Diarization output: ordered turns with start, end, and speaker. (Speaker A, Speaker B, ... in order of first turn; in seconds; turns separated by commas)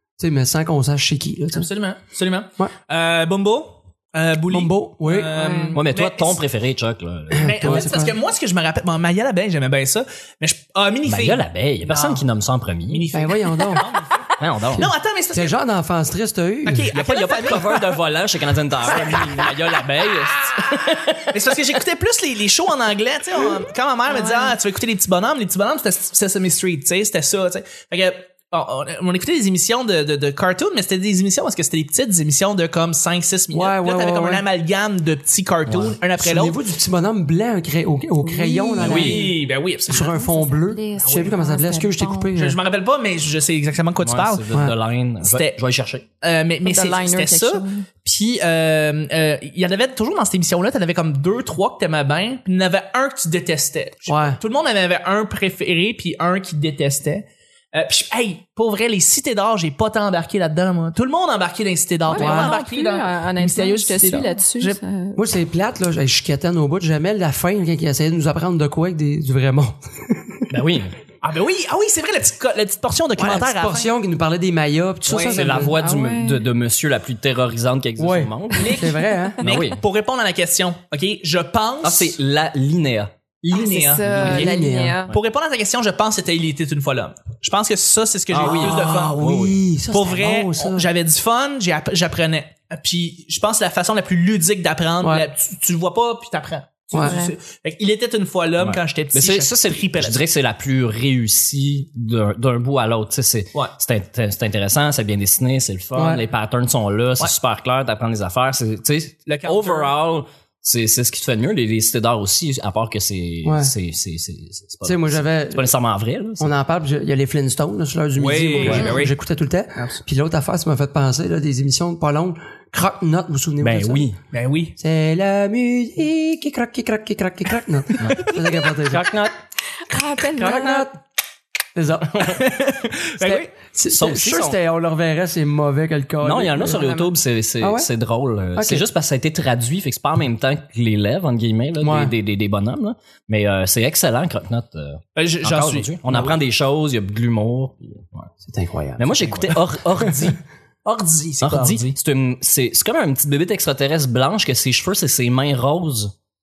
Speaker A: 0.2-1.7, Speaker B: 1.5-6.4, Speaker A: 4.5-5.8, Speaker C: 5.3-5.7, Speaker D: 5.7-7.9, Speaker A: 7.3-8.1, Speaker B: 7.4-12.2, Speaker D: 11.1-13.1, Speaker B: 12.9-15.5, Speaker A: 13.1-13.8, Speaker D: 14.4-14.9, Speaker A: 14.7-16.9, Speaker B: 16.6-17.9, Speaker D: 16.9-21.4, Speaker B: 18.9-20.7, Speaker B: 21.3-36.6, Speaker C: 24.1-24.6, Speaker A: 33.5-34.4, Speaker D: 35.7-36.0, Speaker A: 36.2-39.4, Speaker C: 38.2-39.3, Speaker B: 38.8-40.1, Speaker D: 38.8-39.2, Speaker A: 39.9-42.6, Speaker C: 39.9-42.3, Speaker B: 41.0-41.3, Speaker B: 42.3-44.4, Speaker D: 44.0-46.0, Speaker A: 44.5-44.8, Speaker B: 45.2-45.6, Speaker B: 46.2-64.8, Speaker C: 46.6-47.8, Speaker A: 54.1-54.4, Speaker C: 62.1-65.2, Speaker A: 62.1-62.5, Speaker A: 65.2-70.5, Speaker D: 70.5-71.0, Speaker B: 71.2-73.9, Speaker A: 73.2-75.8, Speaker B: 75.1-75.7, Speaker D: 75.2-78.8, Speaker C: 75.8-76.5, Speaker A: 78.0-79.4, Speaker B: 78.6-82.2, Speaker D: 79.4-79.8, Speaker D: 81.8-83.1, Speaker B: 83.4-84.5, Speaker C: 83.5-85.1, Speaker D: 84.0-84.5, Speaker A: 84.1-85.0, Speaker B: 85.1-89.2, Speaker D: 88.3-89.6, Speaker A: 88.4-90.9, Speaker B: 89.9-100.2, Speaker A: 95.0-95.2, Speaker A: 96.9-97.2, Speaker C: 97.0-97.3, Speaker D: 98.6-116.5, Speaker A: 105.9-106.2, Speaker B: 109.2-109.9, Speaker A: 113.4-113.7, Speaker A: 114.8-115.7, Speaker A: 116.4-124.1, Speaker B: 118.2-119.1, Speaker C: 118.6-119.0, Speaker D: 118.6-119.0, Speaker D: 123.6-124.2, Speaker B: 124.3-124.8, Speaker A: 124.8-129.1, Speaker D: 128.0-128.3, Speaker D: 128.9-129.3, Speaker C: 129.9-130.9, Speaker A: 130.3-131.0, Speaker A: 131.7-132.4, Speaker B: 132.2-133.5, Speaker A: 133.2-137.9, Speaker D: 133.9-134.6, Speaker D: 136.2-148.3, Speaker A: 138.5-138.8, Speaker A: 141.8-142.1, Speaker B: 145.2-146.2, Speaker A: 148.4-150.2, Speaker D: 149.0-150.4, Speaker B: 150.8-151.9, Speaker D: 151.4-156.1